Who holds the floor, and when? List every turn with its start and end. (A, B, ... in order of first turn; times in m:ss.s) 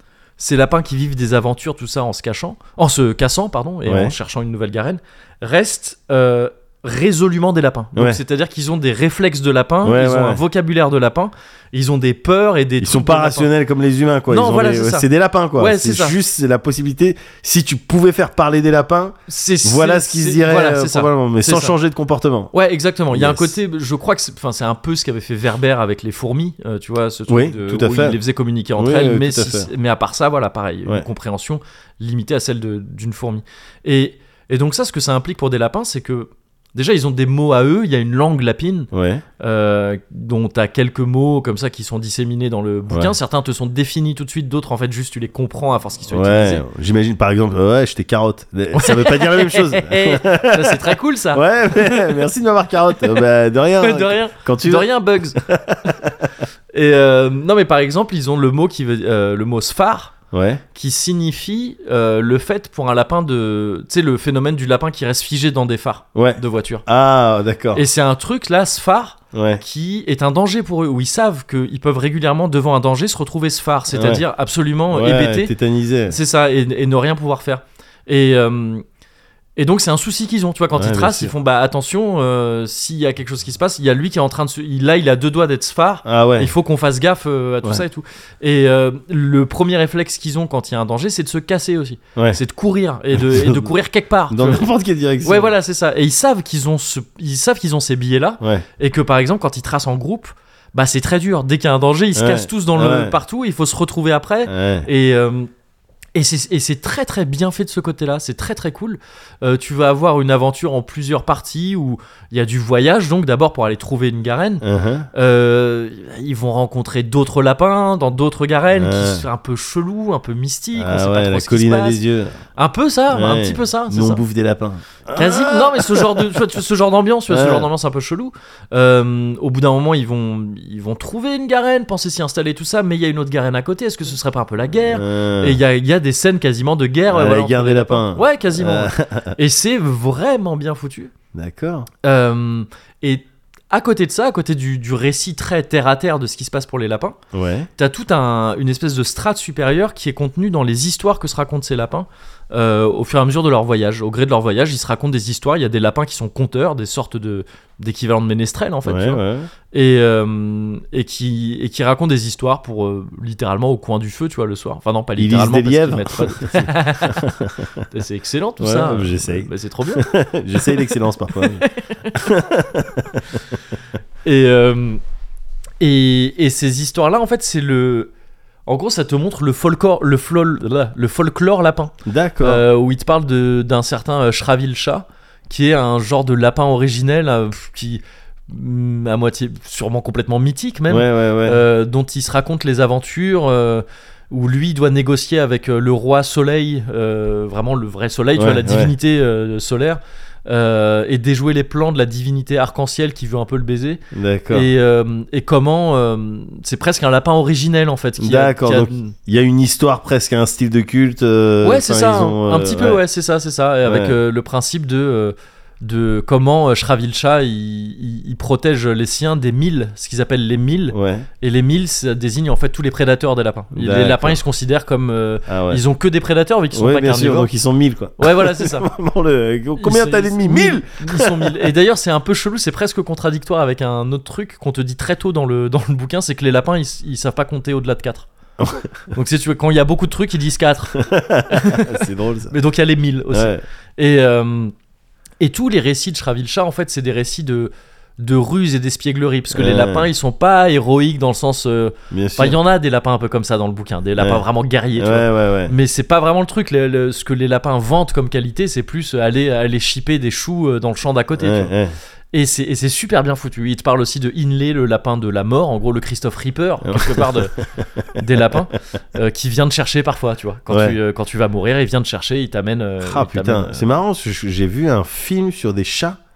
0:00.4-0:13.5 A
0:03.9-0:04.2 B
0:07.9-0:08.2 B
0:09.8-0:10.4 B
0:12.8-0:22.5 B
0:14.3-0:16.2 A
0:19.3-0:21.8 A
0:22.5-0:46.6 A
0:23.1-0:23.5 B
0:27.3-0:28.2 B
0:28.8-0:29.7 B
0:38.9-0:39.2 B
0:42.9-0:43.2 B
0:46.1-0:56.3 B
0:48.8-0:52.2 A
0:53.8-0:55.4 A
0:56.7-1:00.2 A
1:00.3-1:00.6 B
1:00.7-1:06.8 A
1:06.2-1:07.8 B
1:07.8-1:15.5 A
1:09.3-1:09.6 B
1:13.9-1:14.2 B
1:14.9-1:16.2 B
1:16.1-1:18.8 A
1:19.6-1:34.7 A
1:20.8-1:21.3 B
1:26.0-1:26.5 B
1:33.1-1:33.7 B
1:34.3-1:35.5 B
1:35.2-1:45.5 A
1:42.2-1:43.2 B
1:44.5-1:44.9 B
1:46.2-2:02.0 A
1:54.6-1:55.1 B
1:58.7-1:59.2 B
2:00.8-2:02.4 B
2:02.6-2:04.2 A
2:03.1-2:06.4 B
2:05.1-2:21.1 A
2:07.3-2:07.7 B
2:14.9-2:15.6 B
2:17.1-2:19.4 B
2:21.3-2:21.9 B
2:22.0-2:27.2 A
2:27.3-2:27.7 B
2:27.8-2:47.3 A
2:38.8-2:39.5 B
2:45.2-2:47.8 B
2:47.9-2:52.3 A
2:48.6-2:53.6 B
2:54.2-2:55.0 A
2:55.8-2:58.1 A
2:58.7-3:29.2 A
3:02.0-3:02.6 B
3:10.9-3:11.6 B
3:18.4-3:18.9 B
3:24.1-3:24.7 B
3:28.2-3:33.0 B
3:31.6-3:47.5 A
3:33.8-3:34.2 B
3:40.9-3:41.3 B
3:43.7-3:44.4 B
3:45.5-3:45.8 B
3:46.7-3:51.7 B
3:48.2-3:48.9 A
3:49.8-3:58.3 A
3:58.6-3:58.9 B
3:59.1-4:04.7 A
4:01.0-4:02.6 B
4:03.3-4:03.6 B
4:05.4-4:21.7 A
4:09.5-4:10.1 B
4:12.1-4:12.6 B
4:14.2-4:14.4 B
4:15.0-4:15.7 B
4:21.4-4:22.0 B
4:22.3-4:27.6 A
4:26.8-4:28.6 B
4:28.1-4:33.9 A
4:30.7-4:31.0 B
4:33.0-4:36.2 B